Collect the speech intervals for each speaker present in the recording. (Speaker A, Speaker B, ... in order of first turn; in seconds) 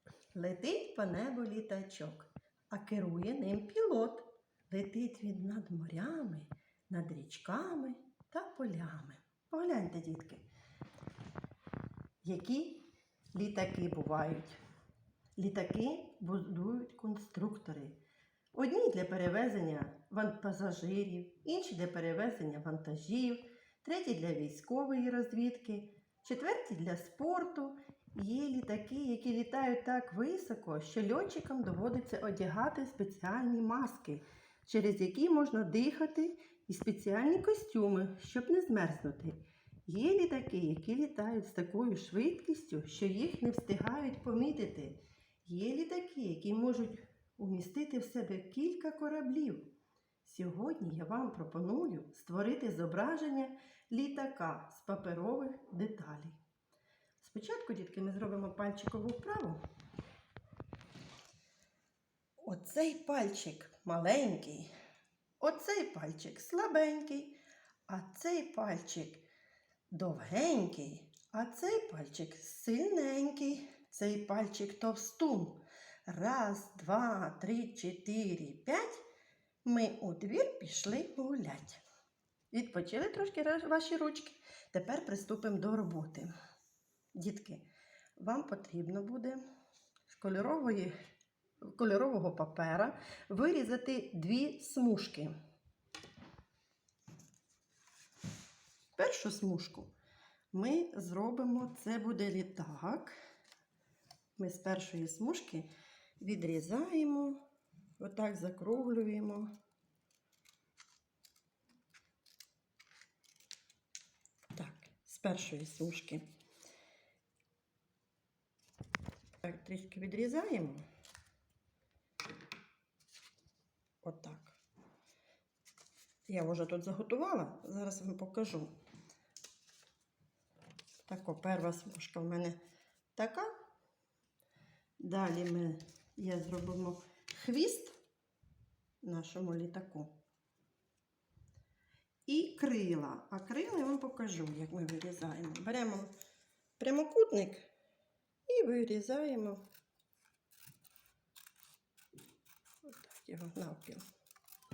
Speaker A: 0.3-10.5, 12.2-14.6, 15.3-18.0, 18.5-49.7, 50.2-56.4, 57.2-59.6, 62.4-64.7, 65.4-69.2, 69.9-79.0, 79.6-81.8, 82.5-86.3, 87.1-87.7, 88.2-89.4, 90.1-90.9, 91.6-95.3, 99.0-99.9, 100.5-103.2, 104.4-105.7, 106.2-107.4, 108.0-109.5, 114.5-116.2, 119.4-120.8, 124.0-124.6, 126.3-128.7, 131.0-132.6, 133.1-133.5, 135.0-137.9, 139.0-140.2, 142.3-146.1, 146.8-147.7, 148.5-149.6, 152.8-154.0